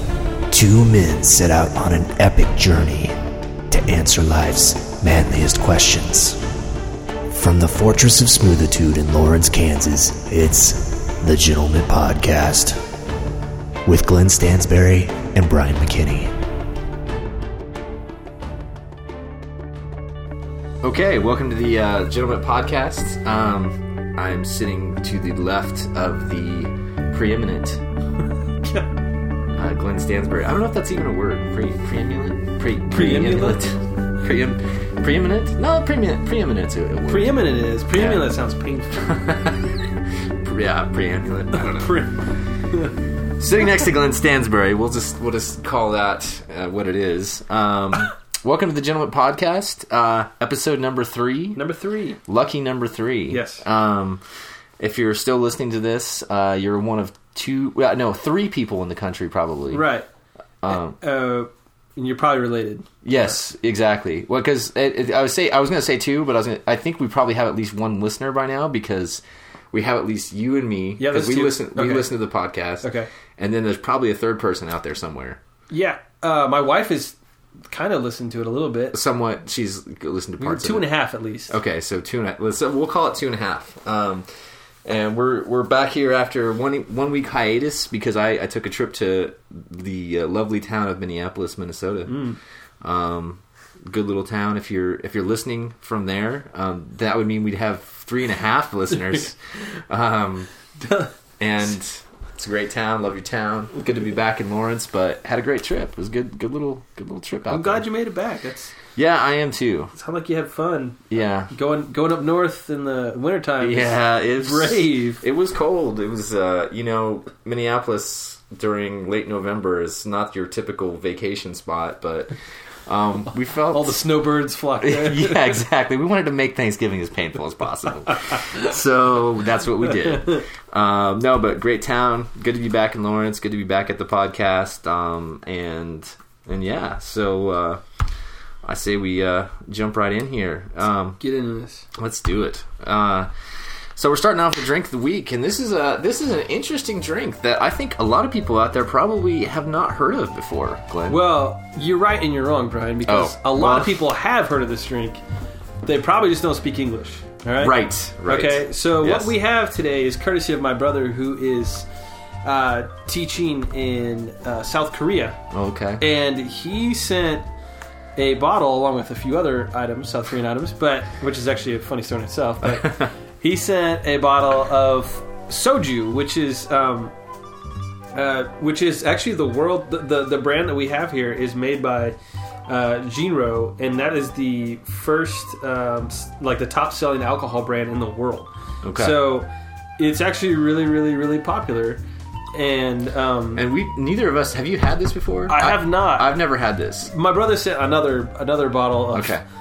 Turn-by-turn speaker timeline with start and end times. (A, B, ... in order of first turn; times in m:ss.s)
0:00.5-0:02.0 A
0:00.8-0:03.1 B
0:03.7-0:06.3 B
0:03.8-0:06.2 A
0:07.3-0:12.7 A
0:07.5-0:11.1 B
0:11.8-0:12.7 B
0:13.9-0:16.2 A
0:14.4-0:15.3 B
0:15.8-0:16.3 B
0:20.8-0:27.8 A
0:29.5-0:38.3 A
0:32.9-0:33.6 C
0:37.1-0:39.2 C
0:39.0-0:39.7 A
0:40.4-0:42.1 A
0:41.6-0:42.9 C
0:43.4-0:51.6 A
0:51.6-0:52.2 C
0:52.3-0:54.2 A
0:53.3-0:53.6 C
0:54.8-0:59.9 A
0:59.7-1:00.1 C
1:00.6-1:01.0 A
1:00.7-1:03.4 C
1:03.0-1:15.4 A
1:11.0-1:12.1 C
1:12.8-1:13.1 C
1:15.7-1:17.2 C
1:17.7-1:19.0 C
1:18.9-1:20.9 A
1:20.4-1:21.5 C
1:21.5-1:24.3 A
1:24.8-1:32.2 A
1:32.1-1:32.4 C
1:32.8-1:39.4 A
1:39.9-1:40.5 A
1:40.8-1:41.1 C
1:41.4-1:47.8 A
1:47.5-1:48.7 C
1:48.9-1:49.9 A
1:49.9-1:55.2 C
1:51.1-1:51.5 A
1:53.6-2:02.3 A
2:02.8-2:04.0 A
2:03.7-2:05.6 C
2:04.8-2:17.8 A
2:18.6-2:21.2 A
2:21.2-2:21.9 C
2:22.0-2:23.3 A
2:24.0-2:31.2 A
2:31.1-2:35.2 C
2:33.1-2:34.1 A
2:35.8-2:41.8 C
2:37.6-2:39.3 A
2:42.4-2:45.4 C
2:45.5-2:46.0 A
2:46.0-2:47.5 C
2:48.2-2:57.1 C
2:52.8-2:53.1 A
2:58.1-3:02.2 C
3:02.7-3:12.0 C
3:08.8-3:09.2 A
3:12.5-3:13.7 C
3:13.6-3:17.1 A
3:15.5-3:16.3 C
3:17.1-3:19.4 C
3:19.1-3:19.4 A